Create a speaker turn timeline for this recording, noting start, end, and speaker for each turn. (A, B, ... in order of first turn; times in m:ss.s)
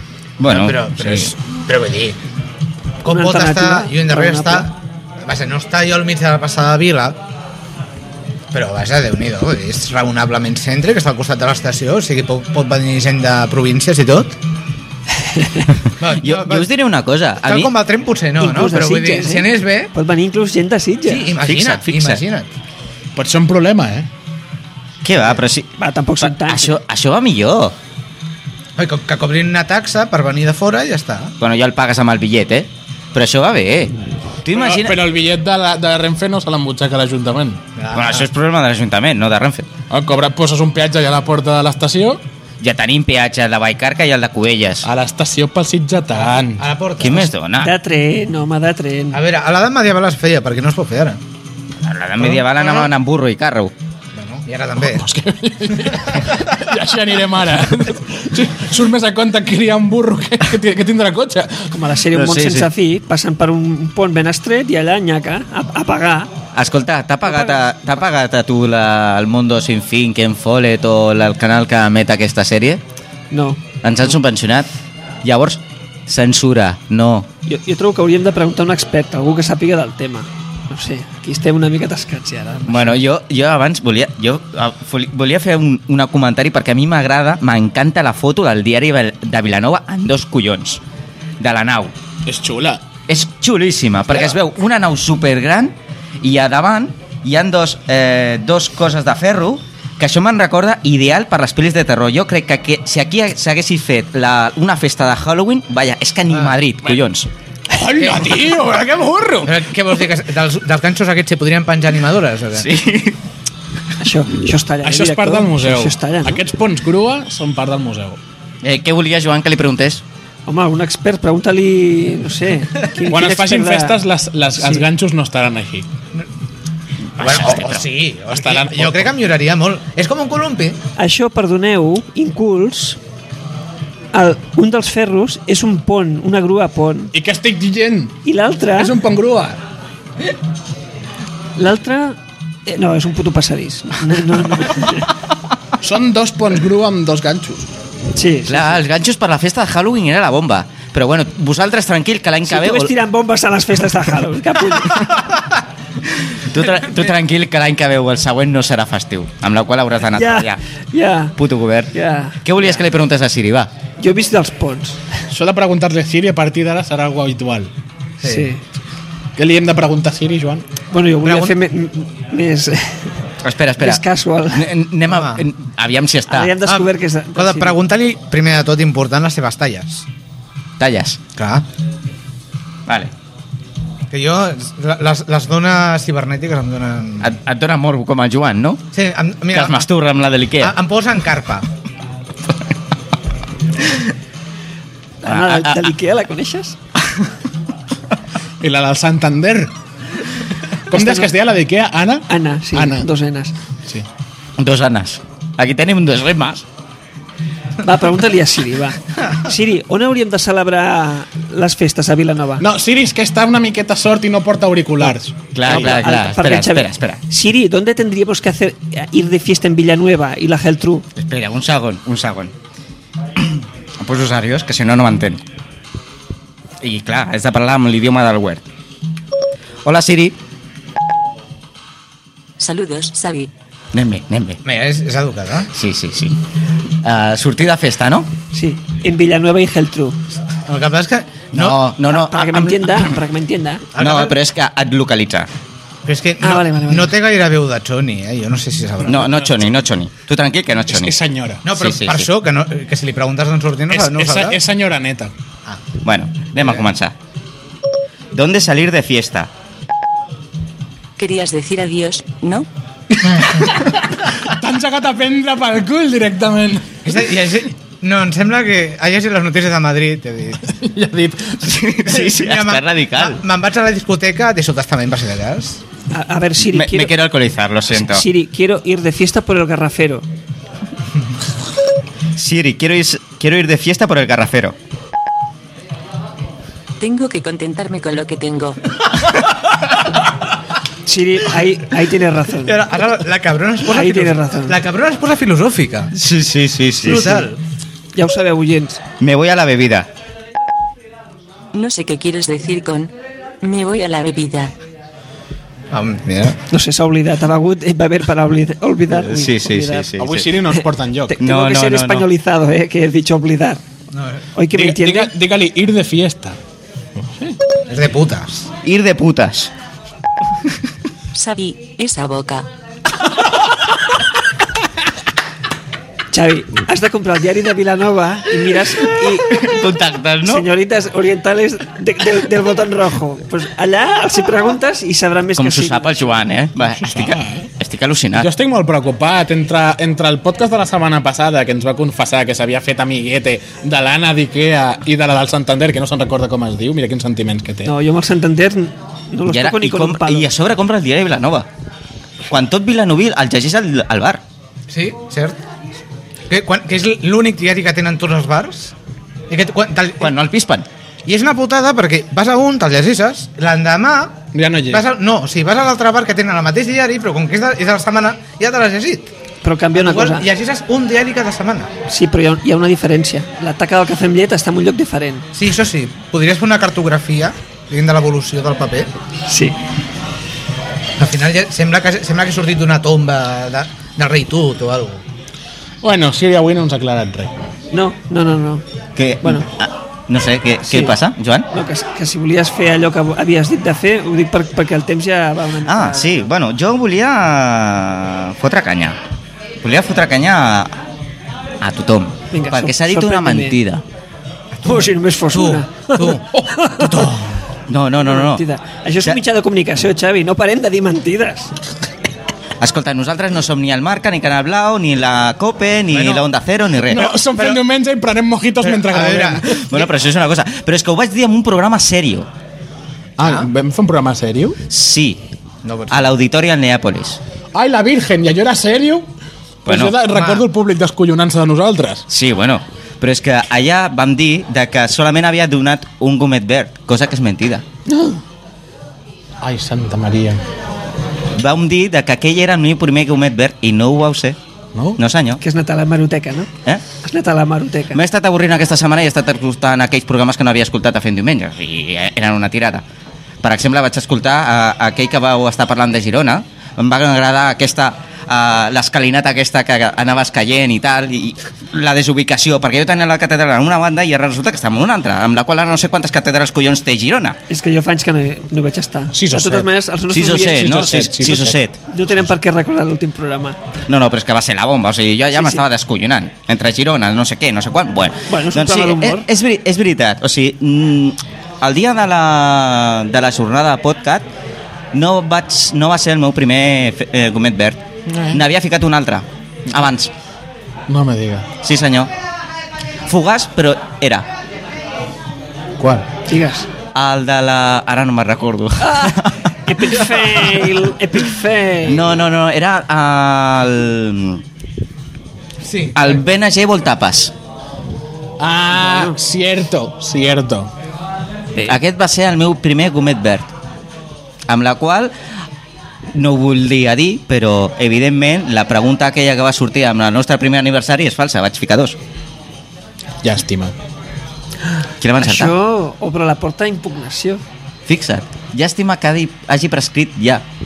0:00.4-0:00.8 A
0:00.5-0:02.2 B
0:01.0-0:01.3 C
0:03.0-0:07.2 B
0:03.0-0:04.7 D
0:08.5-0:14.4 B
0:16.0-0:16.7 B
0:16.0-0:17.7 A
0:17.4-0:19.9 B
0:18.4-0:21.3 D
0:21.0-0:22.5 B
0:21.4-0:22.2 A
0:23.2-0:24.1 C
0:25.0-0:27.7 A
0:25.8-0:26.8 D
0:28.8-0:31.3 B
0:31.4-0:35.0 A
0:34.5-0:37.6 C
0:37.8-0:38.3 B
0:37.9-0:39.7 A
0:39.9-0:42.2 C
0:42.6-0:44.9 A
0:44.8-0:46.6 C
0:46.6-0:47.3 B
0:47.0-0:47.7 A
0:47.6-0:49.2 D
0:49.1-0:51.2 B
0:51.8-0:53.7 A
0:52.2-0:52.9 B
0:54.1-0:55.0 B
0:54.8-1:01.8 C
1:01.7-1:06.3 D
1:02.1-1:02.7 A
1:06.5-1:12.8 A
1:07.2-1:07.6 D
1:13.3-1:13.6 D
1:13.8-1:14.7 A
1:15.2-1:17.3 A
1:17.5-1:23.0 D
1:22.7-1:30.8 A
1:31.4-1:31.9 A
1:32.2-1:32.8 C
1:33.1-1:47.3 A
1:47.7-1:49.6 C
1:49.4-1:52.7 B
1:52.6-1:53.2 A
1:54.0-1:56.4 D
1:54.8-1:58.2 C
1:58.6-2:00.0 A
2:00.5-2:04.0 D
2:03.0-2:05.9 C
2:04.6-2:04.8 D
2:07.2-2:07.8 A
2:07.2-2:10.8 B
2:08.3-2:09.1 C
2:11.0-2:13.0 D
2:14.1-2:17.1 D
2:17.1-2:18.2 C
2:18.2-2:19.0 D
2:18.7-2:19.6 C
2:21.6-2:25.1 D
2:25.8-2:27.7 C
2:28.1-2:28.8 D
2:28.5-2:32.9 A
2:32.4-2:35.1 D
2:34.8-2:35.3 A
2:36.2-2:40.6 A
2:40.1-2:41.3 D
2:41.4-2:41.9 A
2:41.9-2:42.7 D
2:42.4-2:43.7 A
2:44.0-2:45.0 D
2:45.3-2:47.7 C
2:48.2-2:48.5 B
2:48.2-2:48.6 D
2:49.4-2:50.6 C
2:50.9-2:53.1 D
2:51.2-2:51.6 B
2:53.4-2:56.5 A
2:53.8-2:54.7 D
2:55.1-2:55.4 B
2:56.3-2:57.8 D
2:56.6-3:00.1 B
3:00.8-3:01.2 A
3:01.4-3:01.6 B
3:02.9-3:03.1 A
3:04.1-3:07.3 B
3:07.2-3:08.8 A
3:08.9-3:09.8 B
3:09.5-3:10.7 A
3:10.6-3:11.7 B
3:15.2-3:16.8 D
3:15.2-3:15.9 A
3:18.6-3:19.7 C
3:20.9-3:23.1 C
3:20.9-3:21.3 D
3:22.3-3:23.5 D
3:24.6-3:26.6 A
3:27.8-3:32.6 D
3:32.6-3:35.4 C
3:35.5-3:37.2 A
3:35.6-3:41.0 D
3:41.2-3:42.5 A
3:43.4-3:45.4 A
3:46.8-3:48.7 A
3:49.8-3:50.3 A
3:52.6-3:53.5 E
3:53.9-3:54.6 A
3:54.6-3:55.7 B
3:55.7-3:56.4 A
3:57.0-3:58.3 A
3:58.5-4:00.2 D
4:00.7-4:01.8 B
4:01.5-4:03.2 A
4:02.0-4:03.8 D
4:03.9-4:04.4 B
4:04.0-4:05.5 A
4:06.0-4:09.6 B
4:06.4-4:07.1 D
4:09.0-4:11.2 A
4:10.9-4:11.6 C
4:11.6-4:14.6 B
4:11.7-4:12.3 A
4:13.9-4:15.3 C
4:16.0-4:17.1 A
4:18.3-4:19.5 A
4:21.2-4:22.7 E
4:23.3-4:27.1 C
4:27.0-4:30.6 B
4:30.7-4:31.7 C
4:31.6-4:33.4 A
4:32.0-4:35.8 B
4:36.1-4:37.1 D
4:36.7-4:38.2 A
4:37.9-4:40.2 D
4:42.4-4:44.7 A
4:47.0-4:48.8 E
4:51.0-4:52.8 D
4:52.6-4:56.1 B
4:53.9-4:54.8 D
4:56.1-4:57.5 A
4:57.0-4:57.6 B
4:58.1-4:59.0 D
4:59.2-5:00.1 A
5:01.7-5:04.7 E
5:05.9-5:06.6 B
5:06.7-5:10.1 D
5:09.1-5:10.5 A
5:10.2-5:11.4 C
5:10.8-5:13.8 D
5:11.4-5:12.2 A
5:14.1-5:14.4 B
5:14.5-5:15.3 D
5:14.7-5:16.6 C
5:17.2-5:17.6 C
5:17.9-5:18.7 B
5:18.8-5:19.7 A
5:21.3-5:22.6 E
5:26.3-5:29.6 D
5:29.5-5:30.6 A
5:30.4-5:36.4 D
5:35.6-5:38.5 A
5:37.0-5:37.7 C
5:38.3-5:47.9 C
5:47.8-5:50.5 D
5:49.4-5:51.7 A
5:52.5-5:54.4 A
5:54.9-5:55.6 B
5:56.5-5:58.9 B
5:59.5-6:00.3 B
6:00.2-6:00.9 A
6:01.2-6:09.3 B
6:04.5-6:05.0 C
6:09.6-6:10.5 D
6:09.9-6:11.9 B
6:12.1-6:15.5 D
6:15.5-6:19.1 B
6:19.5-6:19.7 D
6:21.2-6:25.2 B
6:26.0-6:27.5 C
6:27.9-6:28.8 D
6:29.2-6:31.7 A
6:30.9-6:31.1 D
6:31.7-6:36.4 D
6:35.8-6:39.2 A
6:39.8-6:41.0 A
6:41.8-6:44.0 A
6:42.5-6:43.7 D
6:44.7-6:47.6 B
6:44.8-6:47.1 D
6:47.9-6:48.6 A
6:48.2-6:51.7 D
6:52.8-6:57.3 A
6:56.1-6:56.5 B
6:57.1-6:59.9 C
6:57.5-6:57.8 B
6:58.8-7:00.0 B
6:59.7-7:02.5 A
7:03.4-7:04.8 C
7:03.4-7:03.7 B
7:04.9-7:05.4 A
7:05.8-7:06.3 B
7:06.1-7:07.4 A
7:07.7-7:09.2 C
7:09.8-7:12.2 C
7:09.8-7:10.2 A
7:10.3-7:10.6 B
7:12.3-7:17.8 A
7:18.1-7:18.4 C
7:19.6-7:20.6 C
7:21.6-7:24.6 A
7:25.2-7:25.6 A
7:25.6-7:26.7 D
7:27.2-7:28.2 D
7:28.1-7:33.0 A
7:33.6-7:47.6 A
7:47.7-7:51.1 D
7:49.3-7:49.9 C
7:50.3-7:52.0 A
7:50.6-7:51.8 C
7:52.1-7:53.8 D
7:54.1-8:04.4 A
7:55.5-7:55.8 D
7:58.5-7:59.4 D
8:05.1-8:08.0 A
8:08.3-8:08.6 C
8:08.5-8:10.3 A
8:11.1-8:11.7 C
8:11.8-8:12.3 A
8:13.3-8:14.5 A
8:16.0-8:16.3 C
8:16.4-8:16.9 D
8:17.1-8:20.9 A
8:19.0-8:22.2 D
8:22.0-8:24.6 A
8:25.8-8:26.4 B
8:26.1-8:27.5 A
8:28.6-8:30.9 C
8:28.9-8:29.4 D
8:31.8-8:33.7 A
8:34.7-8:35.3 A
8:36.3-8:42.2 A
8:43.4-8:43.9 C
8:45.2-8:45.7 A
8:45.4-8:47.6 D
8:48.1-8:50.6 A